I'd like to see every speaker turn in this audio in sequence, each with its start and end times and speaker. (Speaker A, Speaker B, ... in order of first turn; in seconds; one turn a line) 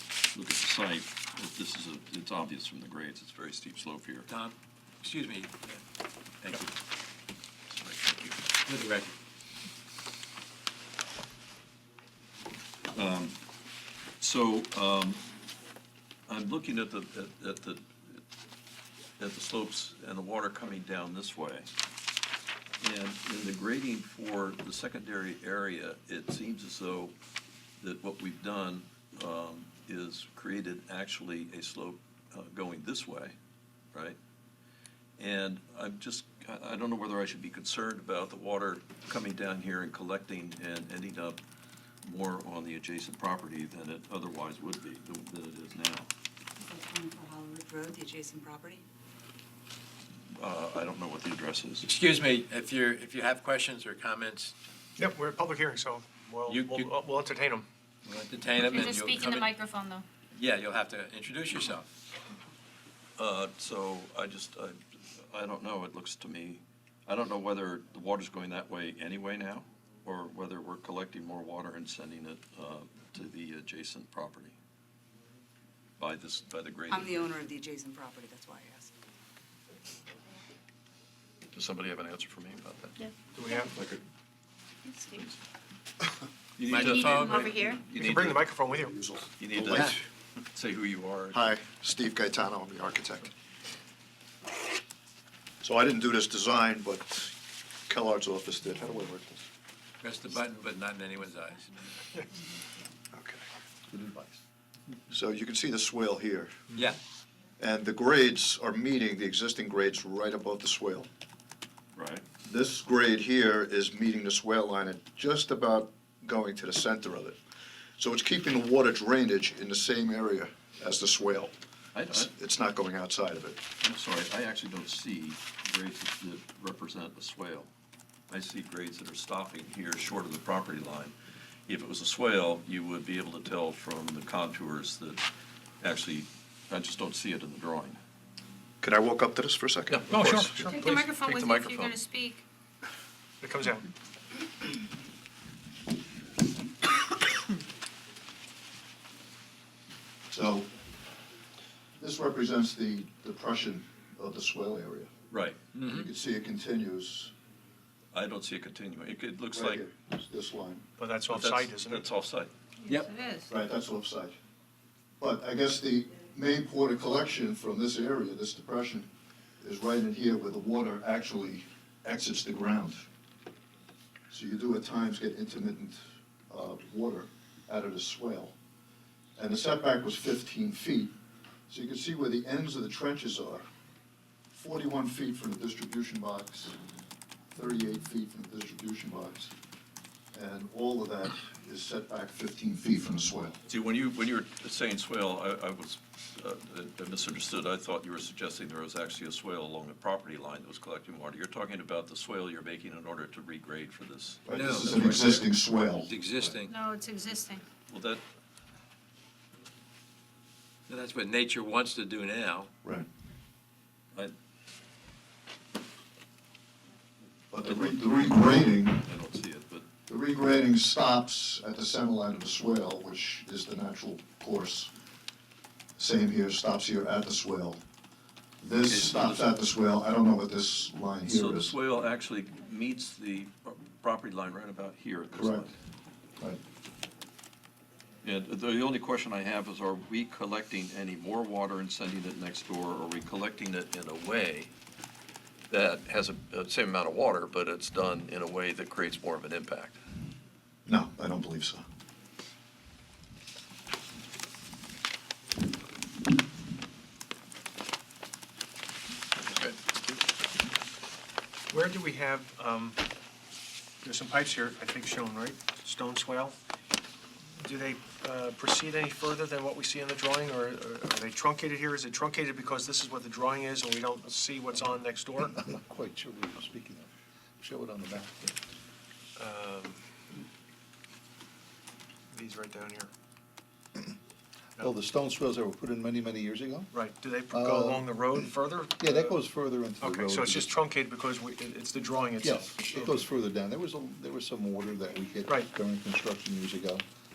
Speaker A: 0.3-4.3
Speaker B: 4.3-5.8
Speaker A: 7.7-8.3
Speaker B: 8.6-9.1
Speaker A: 12.9-13.4
Speaker A: 14.2-15.2
Speaker A: 16.3-18.2
Speaker A: 19.2-21.7
Speaker A: 22.8-27.1
Speaker A: 27.8-33.4
Speaker A: 35.2-41.4
Speaker A: 42.0-46.1
Speaker C: 46.6-48.8
Speaker A: 50.3-51.9
Speaker B: 51.8-54.5
Speaker D: 55.0-57.7
Speaker B: 56.5-56.9
Speaker B: 58.0-59.5
Speaker E: 58.6-60.0
Speaker B: 60.3-61.9
Speaker A: 63.2-74.5
Speaker A: 76.0-77.3
Speaker C: 76.9-78.9
Speaker A: 81.5-83.0
Speaker E: 83.0-83.7
Speaker D: 83.3-83.7
Speaker E: 84.9-85.2
Speaker A: 86.6-88.5
Speaker B: 86.7-87.6
Speaker E: 86.7-87.8
Speaker D: 87.8-89.1
Speaker F: 89.1-90.0
Speaker A: 89.4-91.6
Speaker B: 89.7-90.0
Speaker F: 91.3-93.3
Speaker F: 95.6-97.3
Speaker F: 97.9-99.5
Speaker B: 100.0-101.7
Speaker F: 103.1-103.4
Speaker F: 105.1-106.5
Speaker F: 107.6-111.1
Speaker A: 111.9-112.2
Speaker F: 112.4-117.4
Speaker F: 118.0-121.5
Speaker A: 121.9-122.3
Speaker F: 122.1-123.6
Speaker A: 123.8-127.7
Speaker A: 128.3-131.1
Speaker A: 131.7-135.2
Speaker A: 135.8-138.0
Speaker F: 138.8-140.1
Speaker A: 139.9-142.0
Speaker D: 140.1-141.1
Speaker E: 140.6-142.4
Speaker D: 143.4-143.9
Speaker F: 150.3-150.7
Speaker F: 152.0-155.1
Speaker A: 155.3-155.6
Speaker B: 155.7-156.1
Speaker F: 155.8-157.3
Speaker A: 158.1-159.9
Speaker F: 159.5-160.9
Speaker D: 161.0-162.1
Speaker A: 161.3-162.5
Speaker E: 162.8-163.5
Speaker F: 163.5-164.3
Speaker F: 165.2-169.1
Speaker F: 169.6-173.1
Speaker F: 174.3-178.5
Speaker F: 179.3-181.1
Speaker F: 181.7-183.6
Speaker F: 184.5-186.7
Speaker F: 187.5-189.5
Speaker F: 190.3-193.6
Speaker A: 193.7-205.5
Speaker F: 204.4-206.1
Speaker B: 204.5-205.4
Speaker B: 206.0-206.7
Speaker E: 206.7-207.6
Speaker A: 207.9-208.2
Speaker B: 210.9-212.7
Speaker F: 217.5-219.1
Speaker A: 217.6-219.9
Speaker F: 220.1-224.9
Speaker F: 226.0-227.8
Speaker F: 228.6-231.7
Speaker A: 228.8-229.5
Speaker A: 231.3-235.7
Speaker F: 235.3-235.7
Speaker A: 238.2-244.7
Speaker A: 245.7-250.0
Speaker F: 250.8-251.8
Speaker A: 259.4-259.8
Speaker D: 261.7-263.0
Speaker D: 264.0-266.6
Speaker D: 267.6-275.6
Speaker G: 275.5-278.5
Speaker D: 279.4-280.0
Speaker D: 282.3-283.1
Speaker G: 284.8-286.9
Speaker D: 286.9-289.4
Speaker G: 287.5-288.1
Speaker G: 289.0-290.8
Speaker D: 290.0-293.3
Speaker G: 292.4-297.0